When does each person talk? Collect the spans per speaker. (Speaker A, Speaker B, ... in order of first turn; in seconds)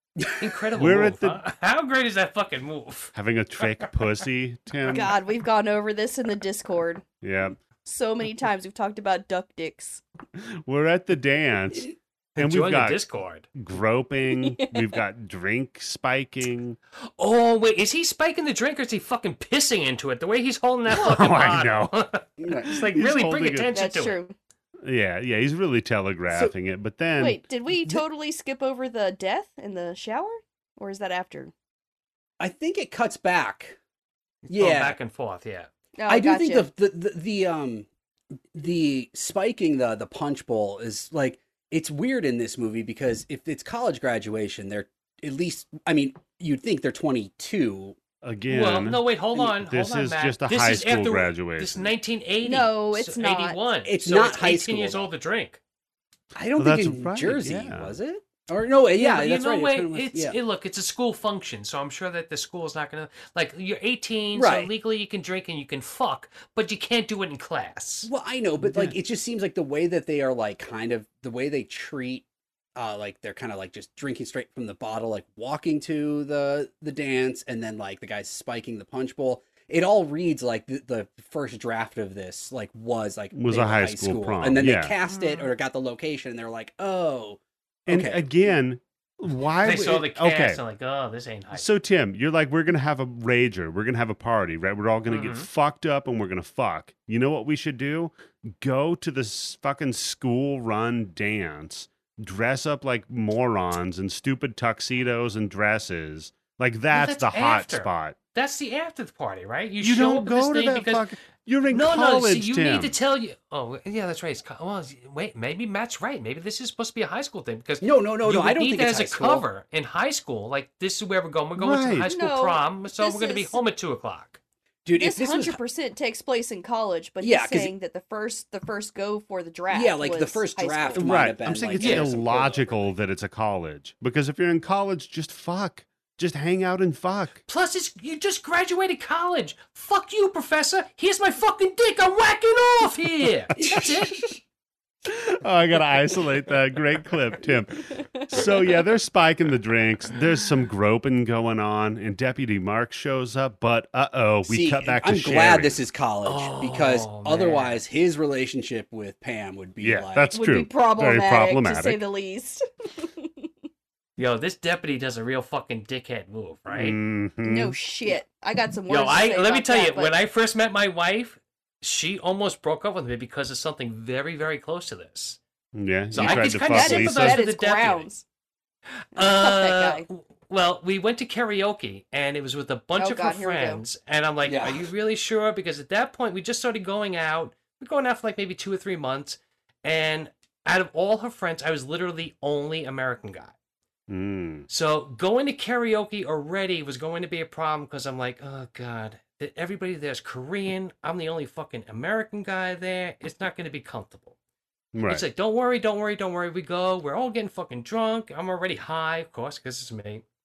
Speaker A: 0.2-0.4, 22.4-22.7, 32.4-33.8, 34.5-35.0, 36.1-37.9, 38.5-48.0, 53.8-55.1, 56.3-60.4, 64.3-64.7, 68.0-72.2, 72.8-88.5, 117.8-119.5, 124.8-125.6, 127.2-127.7, 129.7-132.9, 143.6-143.9, 154.4-160.3, 184.4-184.9
Speaker B: 0.3-3.8, 12.3-13.5, 17.2-24.2, 34.5-35.7, 48.5-55.6, 59.0-68.1, 85.0-85.5, 89.6-91.7, 95.1-95.5, 106.9-111.1, 111.7-124.4, 131.8-132.1, 137.5-144.3, 156.2-157.8, 164.2-167.0, 168.9-175.4, 176.1-178.1, 179.1-193.5, 194.7-204.3, 205.1-210.2
Speaker C: 0.7-1.4, 3.1-5.1, 7.2-7.6, 10.4-13.0, 13.5-16.8, 20.9-21.9, 22.6-23.7, 24.8-27.4, 48.2-49.0, 49.6-51.9, 56.6-57.9, 83.3-84.9, 87.8-90.6, 91.5-108.2, 109.8-113.0, 121.6-122.1, 130.9-137.4, 143.6-144.2, 145.1-155.8, 159.8-162.0, 166.7-167.8, 175.7-177.4, 194.1-194.7, 204.9-205.2
Speaker D: 4.8-7.0, 7.8-10.0, 14.3-14.8, 23.7-24.3, 27.2-31.5, 36.0-36.7, 52.4-53.6, 122.0-123.6, 125.0-131.1, 147.9-148.4, 160.3-163.5, 167.4-170.1, 176.2-178.2, 179.1-180.1, 183.0-183.8